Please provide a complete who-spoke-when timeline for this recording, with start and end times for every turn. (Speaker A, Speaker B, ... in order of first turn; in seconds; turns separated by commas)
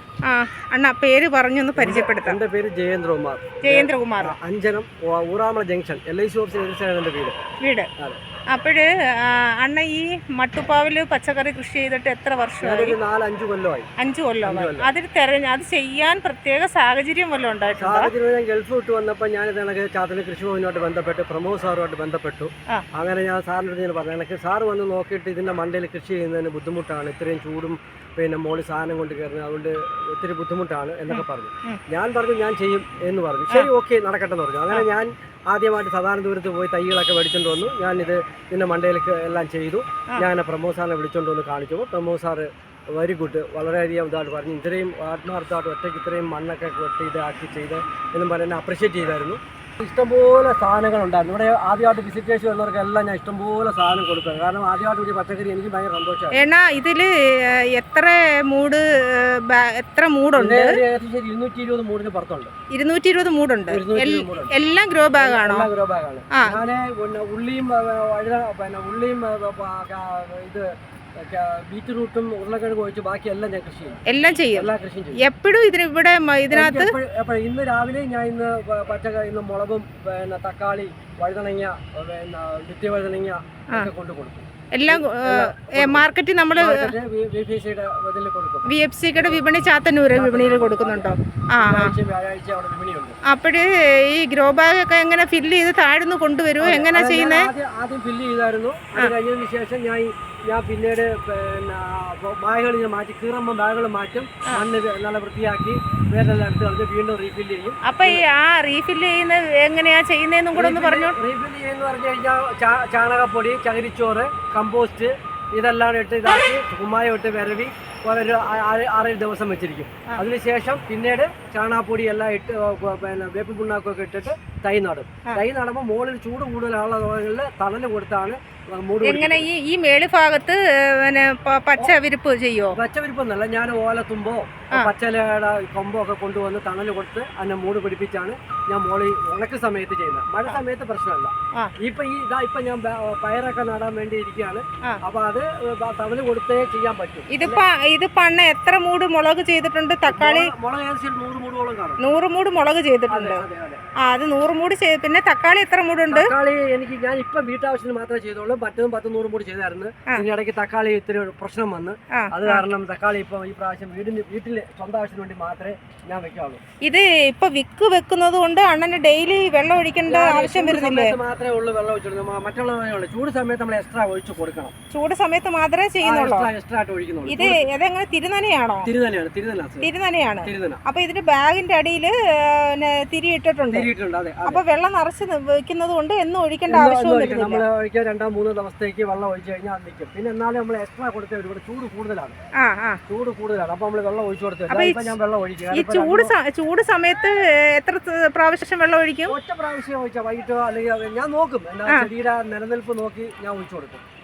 Speaker A: 0.3-2.4, Speaker B: 1.8-7.3, Speaker A: 3.6-4.3, Speaker A: 8.5-13.0, Speaker B: 12.6-13.9, Speaker A: 14.0-18.1, Speaker B: 14.4-14.9, Speaker B: 17.8-56.5, Speaker A: 31.1-31.8, Speaker A: 56.3-60.8, Speaker B: 60.4-62.5, Speaker A: 62.7-65.7, Speaker B: 63.7-64.5, Speaker B: 65.2-74.0, Speaker A: 74.1-76.9, Speaker B: 74.5-75.2, Speaker B: 76.5-89.4, Speaker A: 84.7-86.9, Speaker A: 88.7-91.9, Speaker B: 90.1-93.2, Speaker A: 93.3-97.5, Speaker B: 96.6-108.2, Speaker A: 107.8-111.1, Speaker B: 110.5-129.5, Speaker A: 129.0-132.8, Speaker B: 132.7-147.6, Speaker A: 147.3-150.5, Speaker B: 150.1-152.0, Speaker A: 152.0-153.4, Speaker B: 153.1-153.8, Speaker A: 154.0-156.3, Speaker B: 156.1-166.6, Speaker A: 162.2-162.6, Speaker A: 166.8-171.2, Speaker B: 170.1-174.7, Speaker A: 174.9-176.5, Speaker B: 176.0-177.6, Speaker A: 177.3-178.9, Speaker B: 178.8-179.9, Speaker A: 179.8-183.9, Speaker B: 180.4-180.8, Speaker B: 183.7-184.6, Speaker A: 184.4-187.6, Speaker B: 186.7-192.4, Speaker A: 192.6-193.0, Speaker B: 193.1-196.3, Speaker A: 194.7-195.1, Speaker A: 195.7-199.3, Speaker B: 199.3-204.0